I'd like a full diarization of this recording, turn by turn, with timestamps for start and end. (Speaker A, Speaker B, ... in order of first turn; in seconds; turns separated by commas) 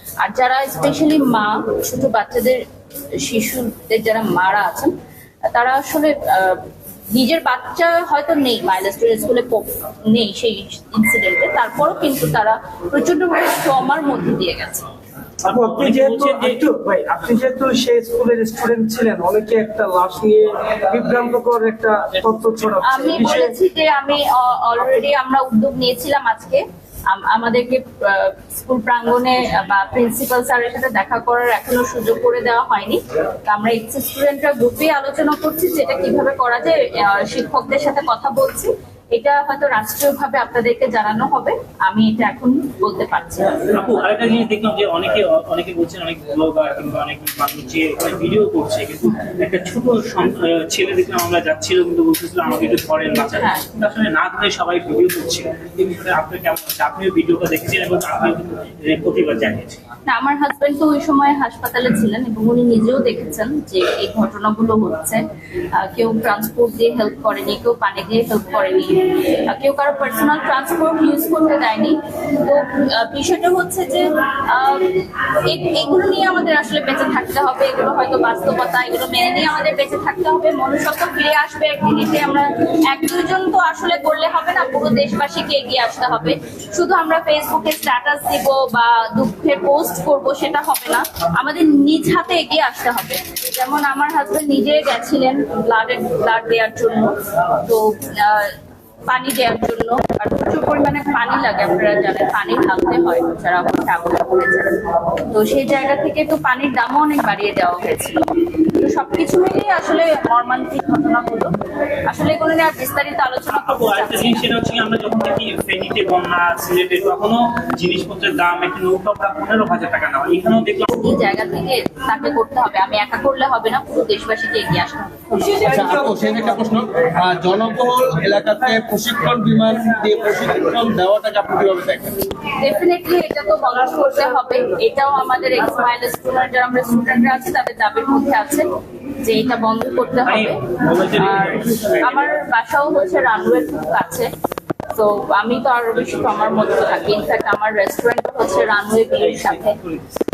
Speaker A: 0.2-2.6, Speaker A: 3.2-4.9, Speaker A: 5.5-14.9, Speaker B: 15.4-16.6, Speaker C: 15.5-23.6, Speaker B: 22.1-23.2, Speaker A: 22.8-43.9, Speaker B: 43.7-59.8, Speaker A: 53.4-53.6, Speaker A: 60.1-98.5, Speaker A: 99.1-111.5, Speaker A: 112.1-114.5, Speaker B: 113.5-121.0, Speaker A: 120.9-125.6, Speaker D: 125.6-132.1, Speaker A: 132.6-144.3, Speaker B: 140.2-142.3, Speaker A: 144.9-149.8, Speaker B: 149.2-150.0